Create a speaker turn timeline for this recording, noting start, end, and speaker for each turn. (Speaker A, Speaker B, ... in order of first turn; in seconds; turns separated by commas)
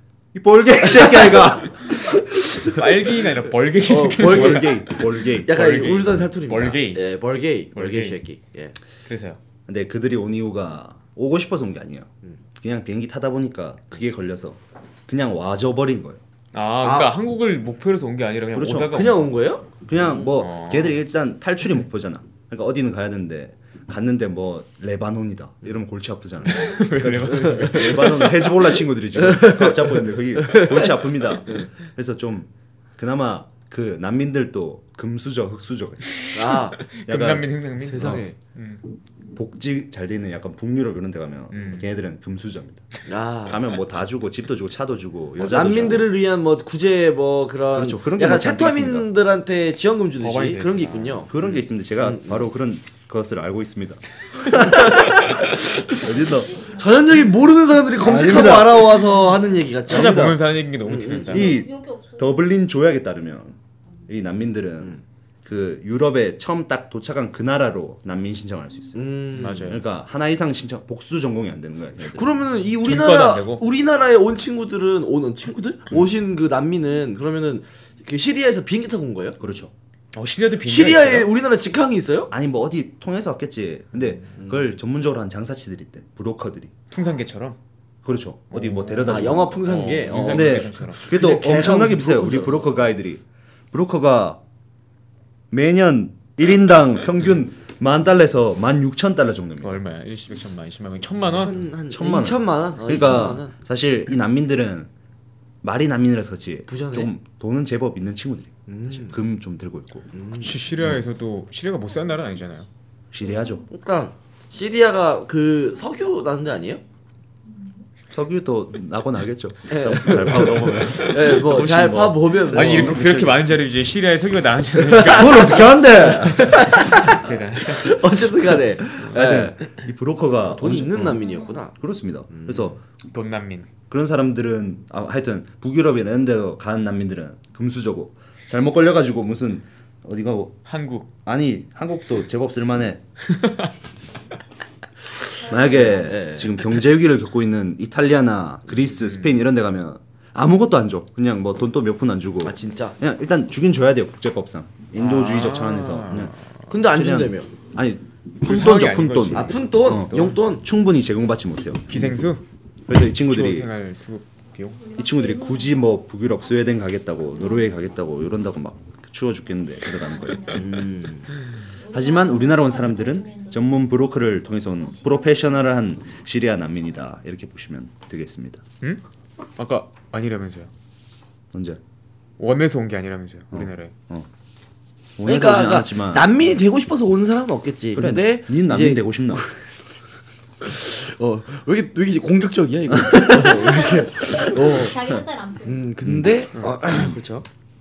Speaker A: 0.3-2.6, Speaker B: 2.4-2.8, Speaker C: 2.5-7.1, Speaker B: 3.9-4.8, Speaker A: 4.2-5.8, Speaker B: 5.5-8.7, Speaker C: 7.7-8.2, Speaker C: 9.1-9.4, Speaker A: 9.7-16.2, Speaker C: 16.5-19.3, Speaker B: 16.8-17.1, Speaker A: 18.5-19.0, Speaker B: 18.9-19.6, Speaker A: 19.9-36.2, Speaker C: 20.2-21.0, Speaker C: 26.5-28.4, Speaker B: 27.3-28.3, Speaker B: 29.2-31.7, Speaker B: 36.3-36.8, Speaker C: 36.8-38.8, Speaker A: 37.1-38.2, Speaker B: 37.8-38.4, Speaker A: 39.3-42.9, Speaker C: 41.5-41.9, Speaker B: 43.0-43.7, Speaker A: 43.5-46.1, Speaker B: 45.4-52.4, Speaker A: 47.7-49.1, Speaker C: 50.2-51.3, Speaker A: 51.3-56.6, Speaker B: 54.5-55.9, Speaker B: 56.6-61.5, Speaker A: 58.0-59.2, Speaker C: 59.9-61.5, Speaker A: 59.9-60.4, Speaker A: 61.3-63.6, Speaker D: 61.3-62.3, Speaker A: 64.1-72.4, Speaker B: 68.9-69.7, Speaker C: 69.4-69.8, Speaker B: 72.0-79.4, Speaker C: 72.7-73.6, Speaker A: 79.4-79.7, Speaker C: 80.1-81.3, Speaker B: 80.7-82.3, Speaker A: 82.3-86.7, Speaker B: 84.3-84.7, Speaker C: 86.9-87.6, Speaker A: 88.0-94.4, Speaker C: 88.5-91.0, Speaker B: 89.0-92.8, Speaker A: 95.5-99.8, Speaker C: 99.6-101.7, Speaker B: 101.2-103.5, Speaker A: 101.9-104.9, Speaker A: 105.6-110.1, Speaker B: 106.7-107.1, Speaker B: 108.7-109.2, Speaker B: 110.1-110.5, Speaker C: 110.3-112.7, Speaker A: 113.1-113.7, Speaker B: 113.7-116.8, Speaker A: 118.1-123.5, Speaker B: 119.7-123.0, Speaker C: 122.5-128.1, Speaker B: 124.8-129.7, Speaker A: 125.0-126.7, Speaker A: 129.0-132.8, Speaker B: 130.5-131.8, Speaker B: 132.3-132.8, Speaker C: 133.1-133.7, Speaker A: 133.9-140.6, Speaker C: 140.7-141.1, Speaker A: 141.2-143.0, Speaker C: 143.3-143.7, Speaker A: 145.4-162.2, Speaker B: 145.5-146.6, Speaker B: 152.4-153.0, Speaker C: 155.0-156.4, Speaker B: 156.7-157.5, Speaker C: 158.4-160.3, Speaker B: 159.3-160.6, Speaker C: 161.9-162.4, Speaker A: 162.9-163.7, Speaker C: 163.2-164.9, Speaker A: 164.9-171.0, Speaker D: 165.4-165.7, Speaker B: 170.5-171.3, Speaker D: 171.8-173.6, Speaker A: 171.9-178.6, Speaker C: 179.6-180.7, Speaker A: 181.5-181.8, Speaker C: 182.4-183.9, Speaker A: 183.5-184.3, Speaker A: 185.2-186.4, Speaker B: 185.2-189.5, Speaker A: 187.9-189.4, Speaker B: 190.6-195.0, Speaker A: 192.9-193.4, Speaker D: 193.5-195.8, Speaker B: 195.6-197.4, Speaker A: 196.0-196.4